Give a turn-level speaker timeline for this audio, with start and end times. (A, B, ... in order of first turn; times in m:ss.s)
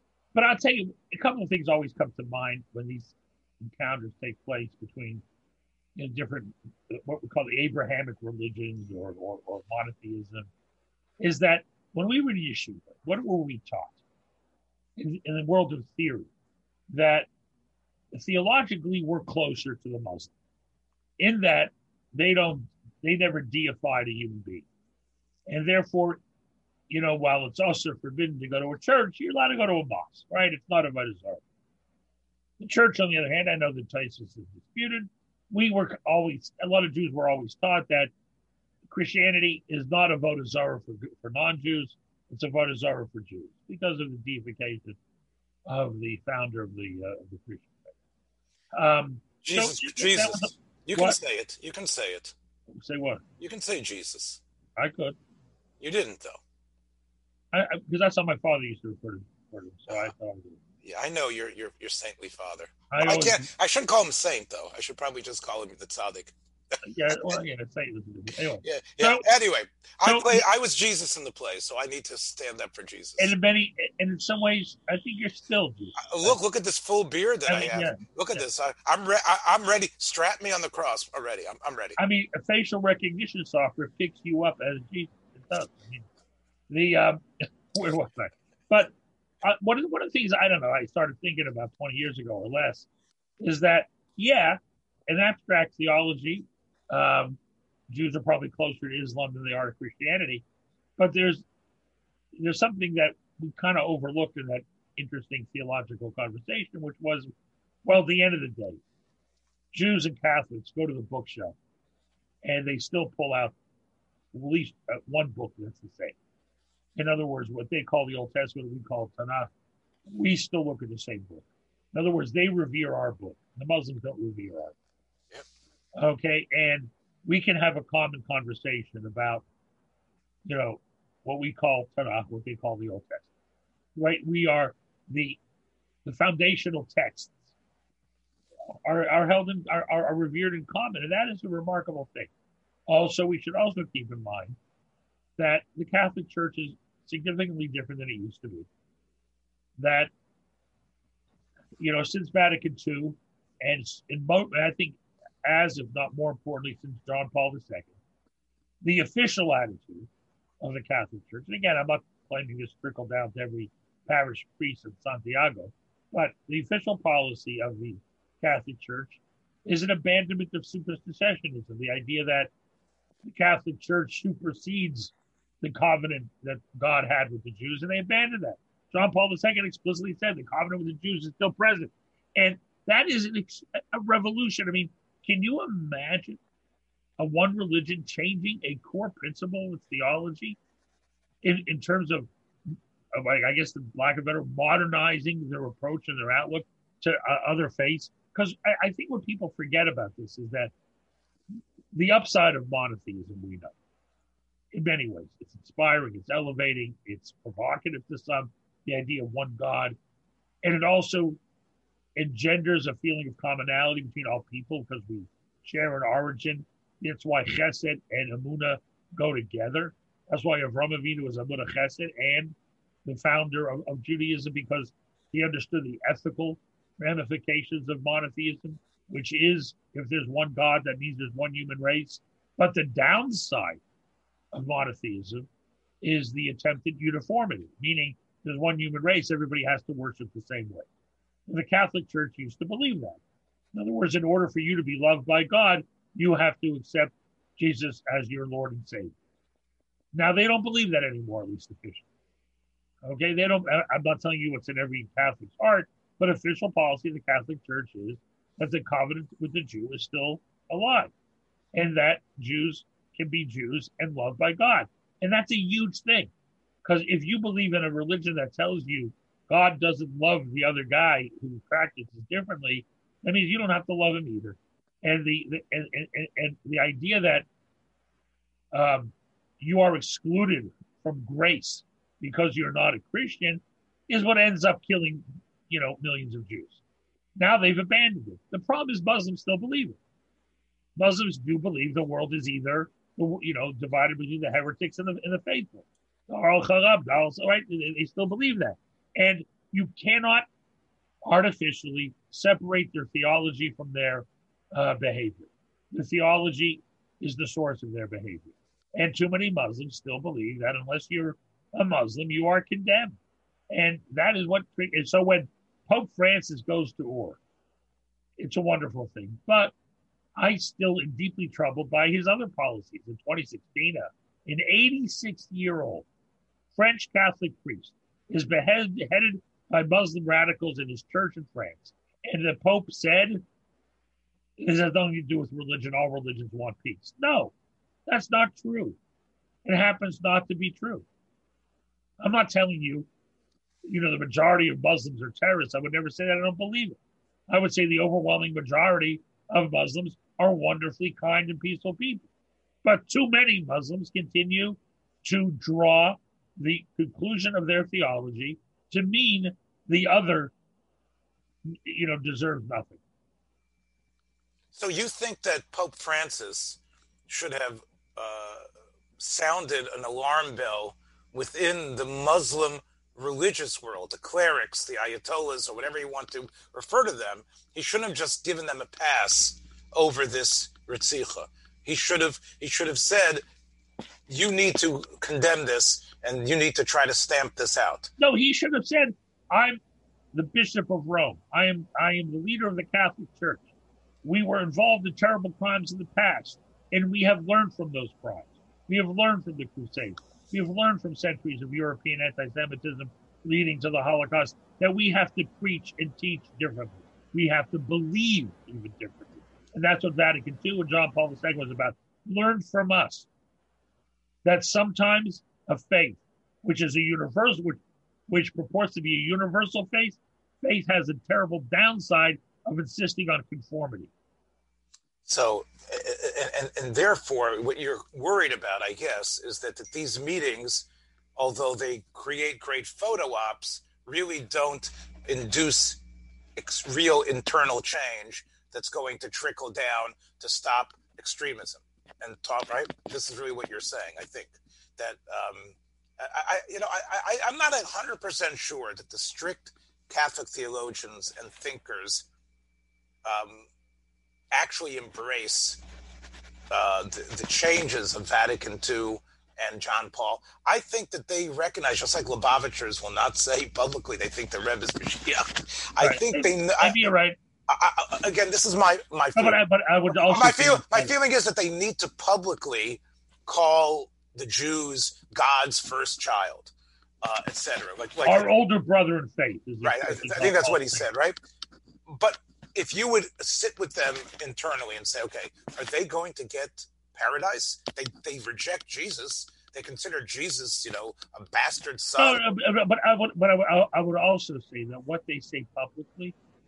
0:00.3-0:05.2 A
0:06.0-0:10.5 A
0:11.2-0:14.0 A
0:15.0-0:16.3 A
0:16.9-0:17.3 A
0:18.1-0:20.3 A
0:21.2-0:24.6 A
0:25.5-0:26.2 A
0:26.9-0:31.4 A
0:32.6-0:38.1 A
0:38.9-0:45.0 A
0:45.6-0:47.9 A
0:48.7-0:51.2 A
0:49.4-0:52.3 B
0:52.7-0:53.2 A
0:53.4-0:54.4 B
0:54.8-0:55.2 A
0:55.8-0:56.4 B
0:57.5-1:00.6 A
1:00.8-1:07.4 B
1:02.9-1:03.5 A
1:06.8-1:09.3 A
1:08.6-1:13.3 B
1:10.0-1:10.4 A
1:13.2-1:16.4 A
1:16.0-1:22.0 B
1:17.5-1:18.0 A
1:22.0-1:26.1 A
1:26.7-1:28.9 A
1:29.4-1:32.9 A
1:33.4-1:37.4 A
1:37.9-1:40.4 A
1:41.0-1:41.4 A
1:42.4-1:47.3 A
1:47.8-1:48.8 A
1:49.7-1:51.6 A
1:52.4-1:53.5 A
1:54.3-1:56.2 A
1:57.0-1:59.5 A
2:00.1-2:04.8 A
2:06.0-2:09.4 A
2:10.4-2:13.3 A
2:13.9-2:15.4 A
2:16.0-2:17.4 A
2:18.7-2:22.3 A
2:22.9-2:24.6 A
2:25.4-2:28.7 A
2:29.8-2:30.1 A
2:31.8-2:38.0 A
2:38.8-2:40.1 A
2:40.6-2:52.5 A
2:53.2-3:06.4 A
3:07.2-3:10.6 A
3:11.4-3:20.7 A
3:21.9-3:23.7 A
3:24.7-3:30.0 A
3:30.6-3:31.4 A
3:32.2-3:53.8 A
3:54.5-3:55.5 A
3:56.0-4:00.9 A
4:01.5-4:03.2 A
4:03.7-4:09.1 A
4:10.1-4:12.1 A
4:13.0-4:21.1 A
4:21.7-4:26.3 A
4:26.8-4:37.4 A
4:38.7-4:46.8 A
4:47.4-4:50.0 A
4:51.0-5:00.4 A
5:01.2-5:13.2 A
5:13.7-5:17.4 A
5:18.4-5:19.7 A
5:20.4-5:26.1 A
5:26.7-5:33.4 A
5:34.6-5:37.5 A
5:38.1-5:39.0 A
5:39.6-5:41.0 A
5:42.2-5:43.1 A
5:43.8-5:52.3 A
5:52.8-6:00.5 A
6:01.6-6:03.0 A
6:04.7-6:08.7 B
6:09.2-6:23.4 B
6:24.3-6:28.1 B
6:28.2-6:29.8 A
6:30.3-6:33.6 A
6:34.2-6:53.3 A
6:54.4-7:04.1 A
7:05.2-7:16.0 B
7:16.6-7:32.3 B
7:33.2-7:33.7 B
7:34.5-7:35.8 B
7:36.7-7:47.0 B
7:46.0-7:47.4 A
7:47.7-7:58.5 B
7:49.4-7:51.1 A
7:58.2-8:01.0 A
7:59.8-8:01.4 B
8:02.1-8:12.4 B
8:12.2-8:16.3 A